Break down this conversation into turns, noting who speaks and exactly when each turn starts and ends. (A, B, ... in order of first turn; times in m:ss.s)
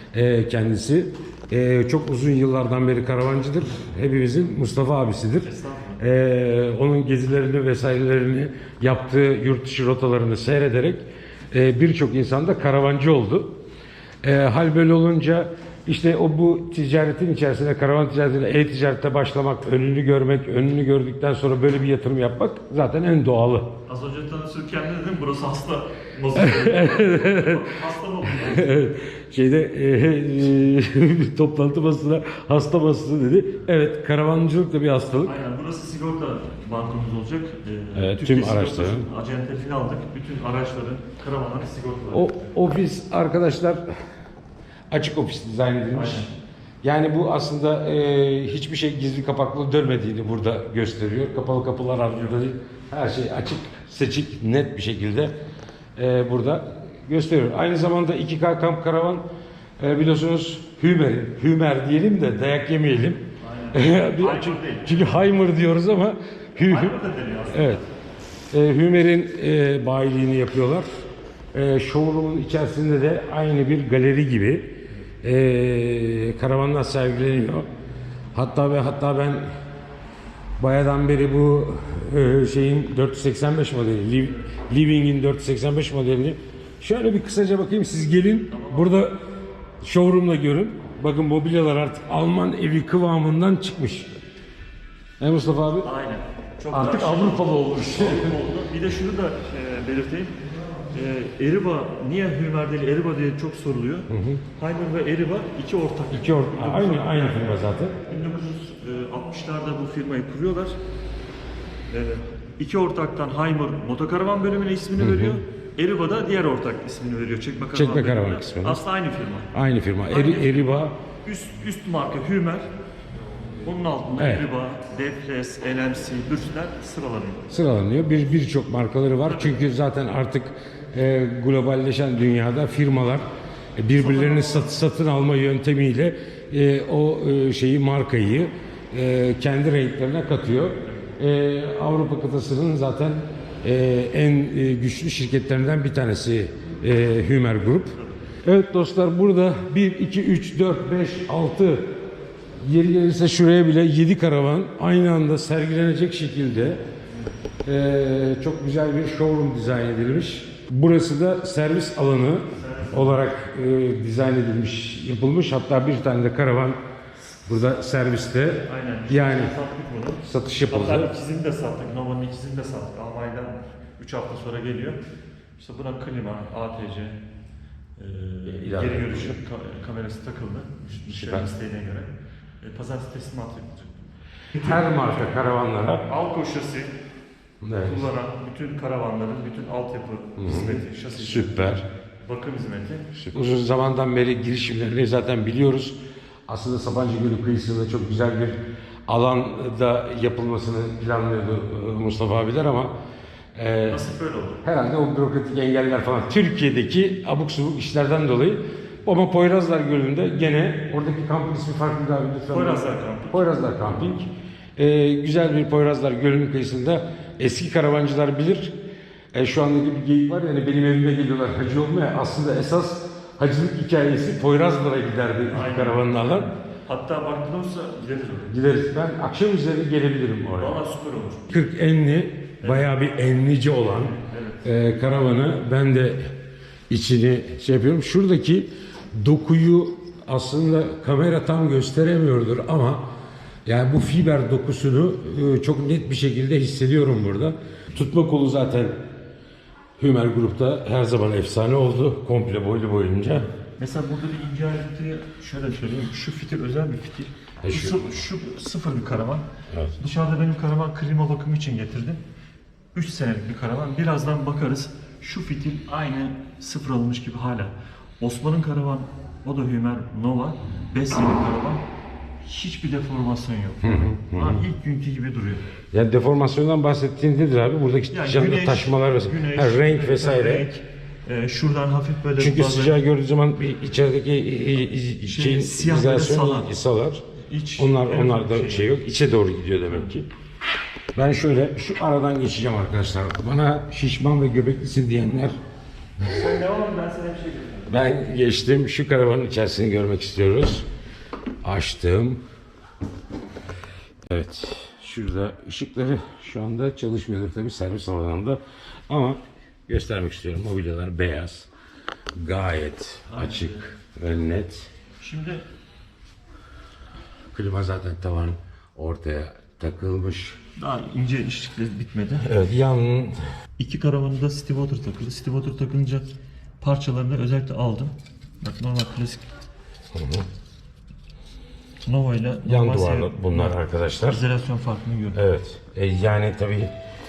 0:00.1-0:13.6 A
0:05.4-0:06.0 B
0:14.2-0:23.8 A
0:23.9-0:28.9 B
0:26.3-0:27.7 A
0:28.3-0:35.4 A
0:35.2-0:42.5 B
0:38.0-0:39.1 A
0:42.1-0:43.8 A
0:44.9-0:55.4 A
0:45.9-0:46.3 B
0:56.0-0:59.3 A
0:59.8-1:07.0 A
1:03.4-1:05.2 B
1:06.6-1:07.9 B
1:07.5-1:07.8 A
1:08.5-1:10.9 A
1:11.5-1:17.7 A
1:18.3-1:19.5 A
1:20.6-1:29.2 A
1:28.5-1:29.0 B
1:29.8-1:34.2 A
1:35.2-1:35.9 A
1:35.8-1:50.8 B
1:36.7-1:38.4 A
1:44.1-1:44.4 A
1:46.1-1:48.0 A
1:51.9-1:59.5 B
1:55.0-1:55.4 A
1:57.7-1:58.8 A
1:59.5-2:01.0 A
2:00.1-2:02.7 B
2:03.6-2:07.5 B
2:04.2-2:04.5 A
2:07.5-2:32.0 A
2:09.2-2:09.6 B
2:14.0-2:14.7 B
2:20.8-2:21.1 B
2:27.8-2:28.2 B
2:32.6-2:36.8 A
2:37.6-2:46.8 A
2:42.5-2:43.3 B
2:47.5-2:49.5 A
2:48.6-2:55.0 B
2:50.2-2:51.1 A
2:55.6-2:57.2 B
2:58.0-3:04.0 B
2:58.5-2:59.4 A
3:01.1-3:01.5 A
3:04.5-3:05.4 B
3:04.6-3:06.1 A
3:06.0-3:07.0 B
3:07.6-3:08.1 A
3:07.8-3:13.1 B
3:10.4-3:11.8 A
3:13.1-3:23.0 A
3:23.6-3:24.0 A
3:23.9-3:24.6 B
3:24.6-3:38.8 A
3:32.5-3:33.6 B
3:39.3-3:46.5 A
3:45.5-3:48.5 B
3:48.5-3:50.8 A
3:50.6-3:51.6 B
3:51.5-3:56.4 A
3:52.6-3:53.0 B
3:54.1-3:54.6 B
3:56.9-4:03.1 A
4:03.6-4:09.0 A
4:10.0-4:13.5 A
4:13.8-4:19.5 B
4:17.6-4:18.2 A
4:19.7-4:20.0 A
4:20.0-4:22.2 B
4:23.0-4:31.8 B
4:32.4-4:35.7 B
4:33.8-4:34.6 A
4:35.9-4:40.7 A
4:38.1-4:43.0 B
4:42.4-4:47.2 A
4:45.2-4:46.7 B
4:47.4-4:49.0 B
4:47.8-4:50.3 A
4:51.1-4:55.6 A
4:56.2-4:57.9 B
4:57.9-5:00.9 A
5:01.6-5:02.4 A
5:04.3-5:11.7 A
5:12.4-5:14.9 A
5:13.3-5:13.9 B
5:15.2-5:15.7 B
5:17.5-5:20.6 A
5:20.8-5:22.5 B
5:22.4-5:23.4 A
5:23.8-5:26.3 B
5:26.8-5:29.5 B
5:30.1-5:30.5 A
5:32.0-5:35.5 B
5:32.6-5:34.4 A
5:35.3-5:37.0 A